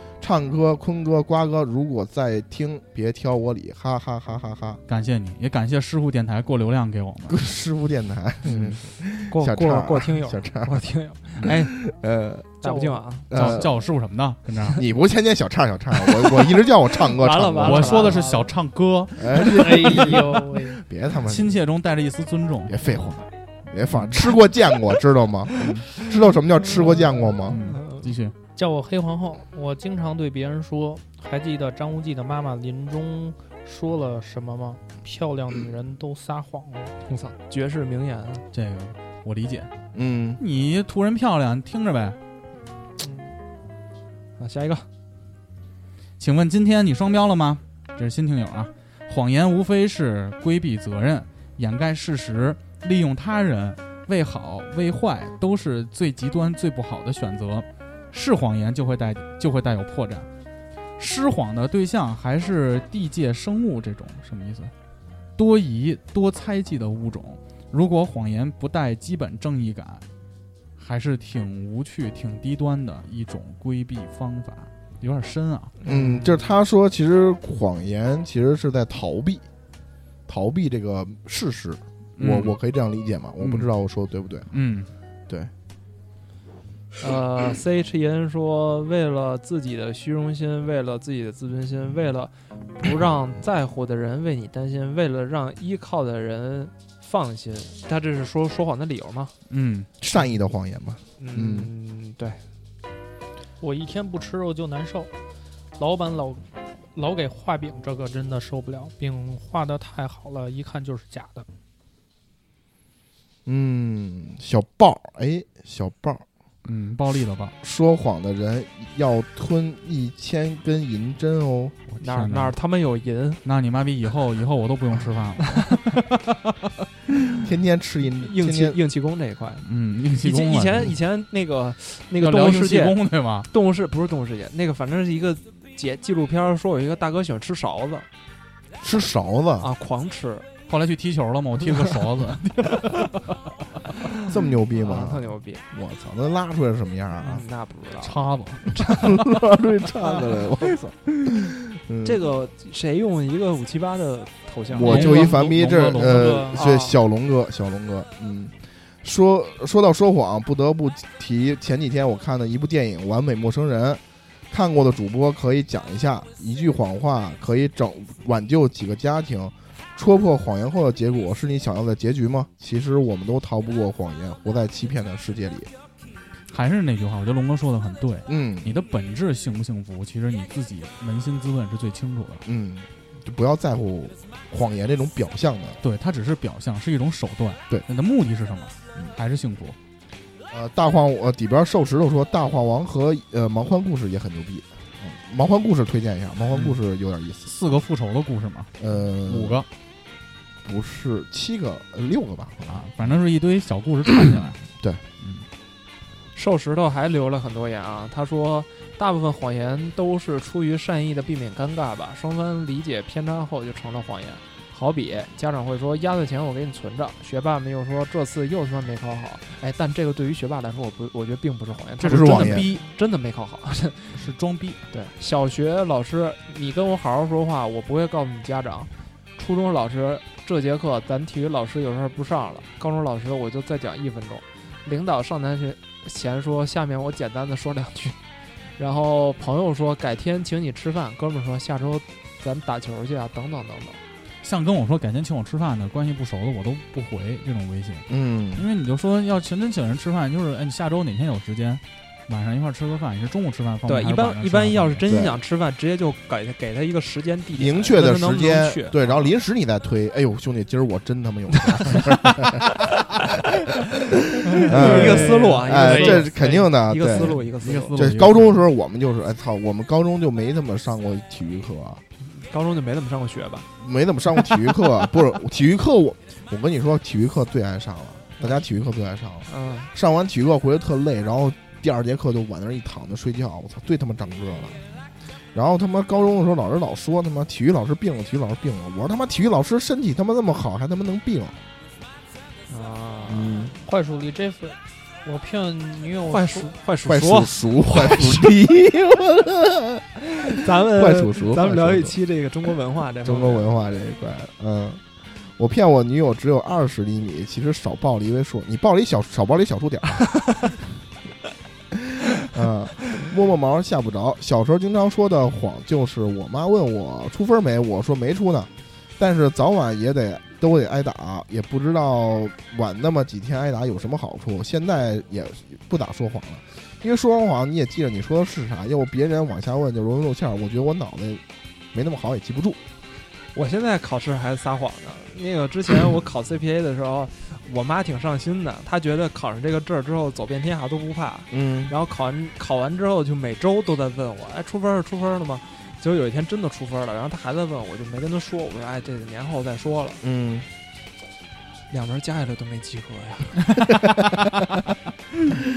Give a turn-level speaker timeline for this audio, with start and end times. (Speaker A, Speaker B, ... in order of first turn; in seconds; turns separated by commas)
Speaker A: 0.2-4.8, Speaker B: 4.9-7.4, Speaker A: 7.3-10.8, Speaker B: 8.4-8.8, Speaker C: 9.3-11.7, Speaker A: 11.4-12.5, Speaker C: 12.6-13.6, Speaker D: 12.6-13.0, Speaker A: 13.3-13.8, Speaker B: 13.3-14.8, Speaker A: 14.7-18.2, Speaker D: 17.2-18.5, Speaker C: 17.3-18.1, Speaker B: 17.6-20.1, Speaker A: 19.1-21.6, Speaker D: 19.4-20.8, Speaker B: 21.2-23.2, Speaker A: 22.7-27.6, Speaker B: 23.9-24.2, Speaker B: 25.6-25.9, Speaker C: 26.7-28.1, Speaker B: 27.4-28.3, Speaker D: 28.6-36.9, Speaker C: 37.0-38.5, Speaker B: 38.5-39.7, Speaker A: 39.9-40.4, Speaker B: 40.4-42.2, Speaker C: 43.0-43.3, Speaker C: 44.4-44.9, Speaker B: 46.2-60.3, Speaker B: 61.0-64.7, Speaker B: 65.3-70.0, Speaker B: 70.8-75.7, Speaker C: 75.8-76.5, Speaker A: 75.8-79.4, Speaker A: 80.3-84.5, Speaker B: 82.2-82.5, Speaker B: 83.4-83.7, Speaker B: 84.5-84.9, Speaker C: 87.0-99.3, Speaker B: 99.5-99.9, Speaker A: 100.0-101.7, Speaker C: 101.2-102.4, Speaker D: 103.6-105.1, Speaker D: 105.8-111.5, Speaker A: 113.5-116.2, Speaker B: 116.6-117.5, Speaker A: 117.6-121.8, Speaker B: 121.9-122.5, Speaker C: 122.0-123.4, Speaker B: 123.4-126.5, Speaker A: 127.4-128.8, Speaker C: 128.2-129.6, Speaker B: 129.6-130.9, Speaker C: 130.2-138.1, Speaker B: 132.2-133.5, Speaker A: 138.8-139.7, Speaker C: 139.6-140.5, Speaker B: 140.7-143.4, Speaker A: 144.3-147.4, Speaker C: 144.7-145.6, Speaker C: 147.2-148.2, Speaker B: 148.0-149.5, Speaker A: 148.8-152.2, Speaker C: 152.0-155.2, Speaker A: 154.7-175.7, Speaker B: 154.8-156.4, Speaker D: 155.0-156.6, Speaker C: 156.6-157.0, Speaker B: 176.5-182.4, Speaker A: 178.3-178.8, Speaker A: 182.4-185.8, Speaker B: 185.8-189.8, Speaker A: 190.5-197.5, Speaker B: 196.5-196.8, Speaker B: 197.5-198.7, Speaker A: 198.8-199.7, Speaker B: 199.2-199.7, Speaker A: 200.6-202.9, Speaker B: 202.7-204.6, Speaker B: 205.2-205.5, Speaker C: 206.3-224.3, Speaker B: 222.0-222.8, Speaker A: 222.0-222.7, Speaker B: 224.1-224.8, Speaker C: 224.9-238.2, Speaker C: 238.8-244.0, Speaker B: 244.4-255.1, Speaker A: 248.1-248.7, Speaker C: 253.9-259.3, Speaker A: 255.1-255.4, Speaker A: 257.5-262.6, Speaker C: 261.6-262.9, Speaker A: 263.9-272.0, Speaker C: 264.5-267.9, Speaker B: 264.6-266.0, Speaker D: 265.3-266.2, Speaker B: 267.1-268.6, Speaker C: 272.2-273.7, Speaker A: 273.8-284.8, Speaker C: 274.5-274.8, Speaker C: 279.5-279.9, Speaker A: 285.5-291.6, Speaker C: 292.7-293.7, Speaker A: 293.3-293.7, Speaker D: 293.8-296.7, Speaker C: 296.3-298.6, Speaker A: 297.0-302.1, Speaker C: 300.4-303.7, Speaker A: 303.2-310.4, Speaker C: 310.4-310.7, Speaker A: 312.4-332.8, Speaker C: 333.5-350.2, Speaker A: 341.5-341.9, Speaker A: 350.2-350.7, Speaker C: 351.9-353.8, Speaker A: 354.1-354.6